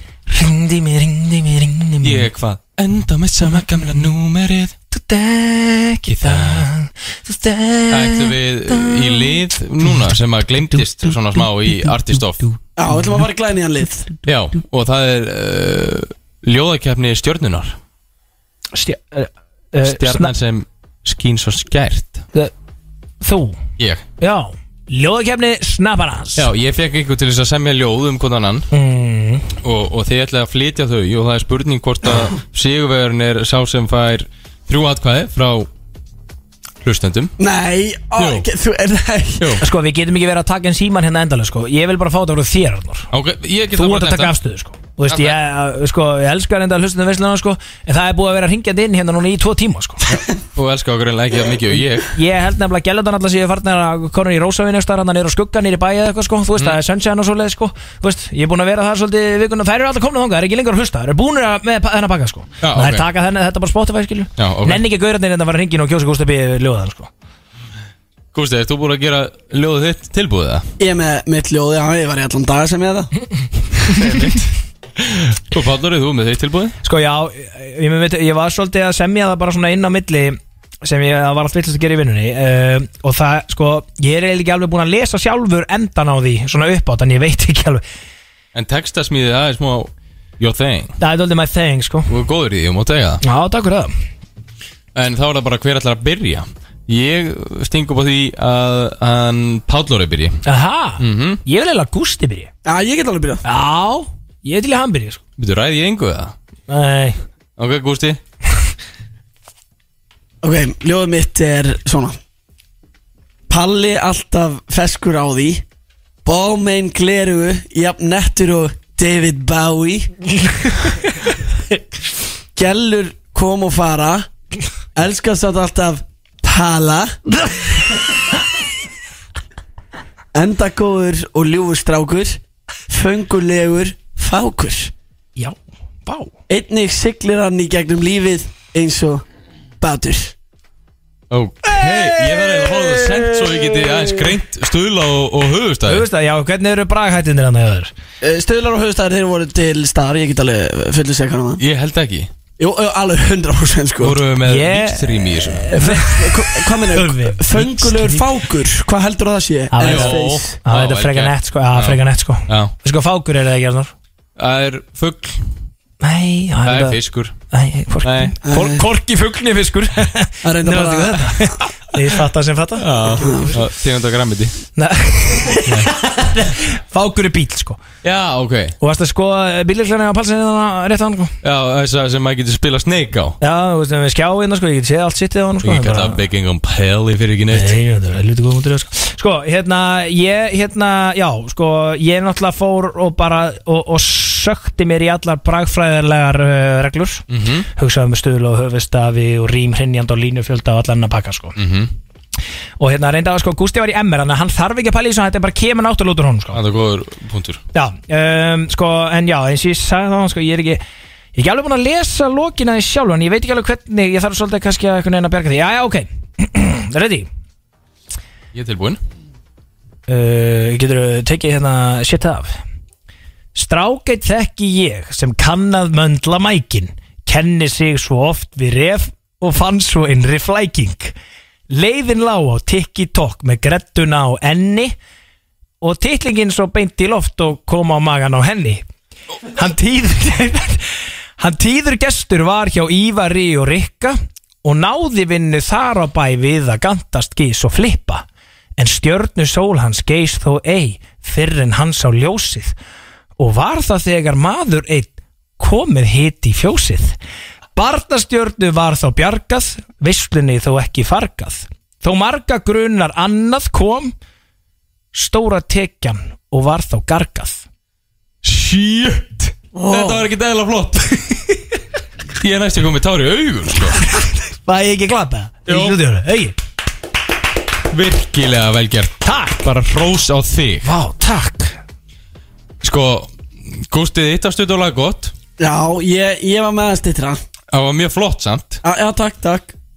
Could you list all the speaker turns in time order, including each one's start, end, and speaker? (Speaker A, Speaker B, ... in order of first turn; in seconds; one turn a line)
Speaker A: 0.3-2.3
Speaker B: 2.0-4.7
Speaker A: 4.9-9.4
Speaker B: 6.1-6.7
Speaker B: 7.9-12.5
Speaker A: 10.7-12.5
Speaker C: 12.8-14.1
Speaker B: 14.3-17.8
Speaker A: 18.8-20.3
Speaker B: 19.8-22.2
Speaker A: 23.2-23.6
Speaker B: 23.8-24.1
Speaker A: 24.2-26.5
Speaker B: 26.4-28.7
Speaker A: 28.7-29.5
Speaker B: 29.6-35.7
Speaker B: 36.8-37.3
Speaker C: 37.4-39.6
Speaker B: 38.2-38.5
Speaker A: 39.6-43.1
Speaker B: 43.1-44.3
Speaker A: 43.8-50.2
Speaker B: 45.1-45.4
Speaker B: 50.1-52.1
Speaker A: 52.1-67.1
Speaker B: 62.6-63.0
Speaker B: 64.4-64.8
Speaker B: 68.3-70.7
Speaker C: 70.8-73.1
Speaker B: 73.9-74.4
Speaker B: 75.0-76.8
Speaker A: 76.8-87.8
Speaker B: 88.5-91.0
Speaker A: 91.0-92.1
Speaker B: 92.1-93.2
Speaker A: 93.2-93.9
Speaker B: 95.0-100.4
Speaker A: 100.5-102.5
Speaker B: 101.0-101.4
Speaker C: 102.7-103.4
Speaker A: 103.4-105.2
Speaker B: 105.4-106.3
Speaker A: 106.7-107.2
Speaker B: 107.6-108.2
Speaker C: 110.4-112.2
Speaker C: 113.5-115.6
Speaker C: 116.2-120.1
Speaker C: 122.5-124.3
Speaker C: 125.0-127.2
Speaker C: 130.3-134.9
Speaker A: 135.4-136.3
Speaker C: 136.5-139.2
Speaker C: 139.8-140.3
Speaker B: 141.3-146.1
Speaker A: 141.7-144.1
Speaker A: 145.9-147.9
Speaker C: 148.2-151.6
Speaker B: 151.6-152.3
Speaker C: 152.6-154.2
Speaker B: 154.0-155.7
Speaker A: 154.4-158.3
Speaker C: 155.7-160.6
Speaker A: 159.7-163.9
Speaker B: 159.8-162.7
Speaker B: 164.4-165.4
Speaker A: 166.0-167.0
Speaker B: 166.7-167.3
Speaker A: 167.5-173.6
Speaker B: 168.0-168.3
Speaker C: 168.4-168.9
Speaker C: 170.4-171.3
Speaker B: 172.8-174.6
Speaker C: 173.1-173.6
Speaker A: 174.8-177.8
Speaker B: 178.0-178.8
Speaker A: 178.8-181.3
Speaker B: 181.4-183.4
Speaker A: 183.4-186.2
Speaker B: 185.6-187.8
Speaker A: 187.5-197.2
Speaker B: 197.3-197.7
Speaker A: 197.8-201.6
Speaker B: 201.6-201.9
Speaker A: 202.8-206.6
Speaker B: 206.5-207.6
Speaker A: 207.7-210.8
Speaker A: 211.3-217.3
Speaker B: 218.5-219.0
Speaker A: 220.1-222.6
Speaker A: 223.6-231.2
Speaker A: 231.7-234.9
Speaker A: 235.8-238.8
Speaker A: 239.5-248.2
Speaker A: 248.8-252.7
Speaker A: 253.4-257.2
Speaker A: 257.8-264.1
Speaker A: 265.1-267.6
Speaker B: 268.4-271.1
Speaker C: 269.7-270.2
Speaker B: 272.4-274.0
Speaker A: 274.1-276.6
Speaker B: 275.7-276.0
Speaker B: 277.9-280.9
Speaker A: 279.2-279.6
Speaker A: 280.8-281.8
Speaker B: 282.8-285.3
Speaker C: 285.6-287.4
Speaker B: 287.7-288.8
Speaker C: 288.8-289.7